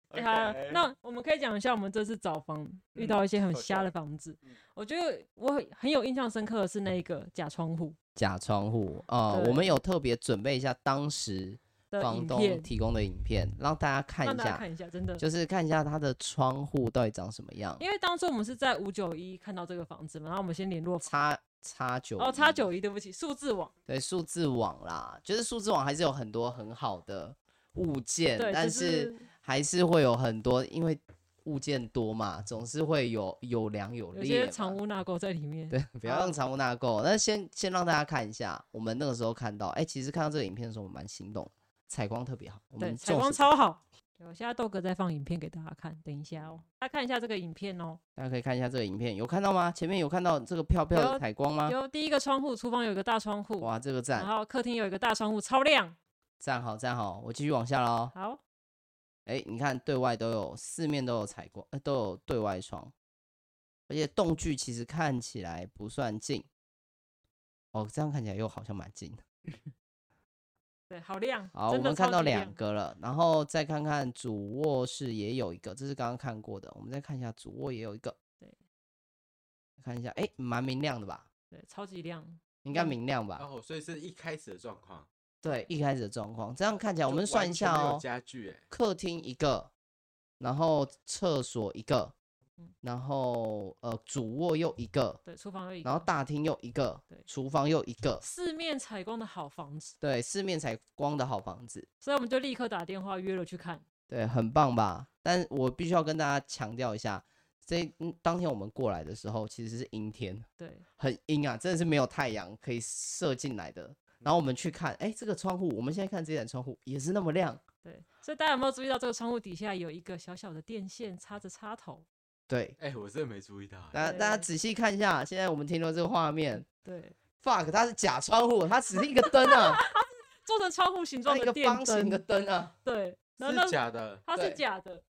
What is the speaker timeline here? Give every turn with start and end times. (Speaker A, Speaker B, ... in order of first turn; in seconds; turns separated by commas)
Speaker A: 0.1-0.8, Speaker B: 0.1-8.0, Speaker A: 3.0-3.9, Speaker C: 8.2-14.7, Speaker B: 9.3-9.7, Speaker B: 11.9-12.7, Speaker B: 14.2-15.2, Speaker C: 15.2-17.8, Speaker B: 17.8-21.2, Speaker C: 21.0-22.7, Speaker B: 22.2-23.7, Speaker C: 23.9-34.8, Speaker B: 28.4-29.3, Speaker B: 34.1-36.4, Speaker C: 35.7-43.5, Speaker B: 42.8-48.0, Speaker C: 48.2-51.8, Speaker B: 50.9-56.0, Speaker C: 53.6-54.3, Speaker C: 56.4-58.1, Speaker B: 58.1-58.4, Speaker C: 59.3-62.9, Speaker C: 63.9-66.5, Speaker C: 67.7-69.2, Speaker B: 70.9-72.6, Speaker C: 71.5-78.2, Speaker C: 79.8-81.3, Speaker B: 81.5-83.0, Speaker C: 82.6-83.5, Speaker A: 83.4-85.1, Speaker C: 85.4-88.0, Speaker A: 87.0-88.7, Speaker C: 88.7-89.7, Speaker C: 90.4-92.2, Speaker C: 92.8-95.2, Speaker B: 95.2-96.1, Speaker C: 95.8-98.2, Speaker B: 98.2-100.0, Speaker C: 100.0-101.9, Speaker B: 102.0-103.8, Speaker C: 104.1-110.5, Speaker B: 110.6-110.8, Speaker C: 111.0-117.6, Speaker B: 117.8-122.1, Speaker C: 122.5-122.8, Speaker A: 122.8-124.1, Speaker C: 123.9-126.7, Speaker B: 124.0-124.5, Speaker B: 126.7-127.1, Speaker C: 127.4-129.8, Speaker B: 129.3-132.2, Speaker C: 131.3-132.7, Speaker B: 132.8-135.0, Speaker A: 133.4-134.2, Speaker C: 134.3-134.6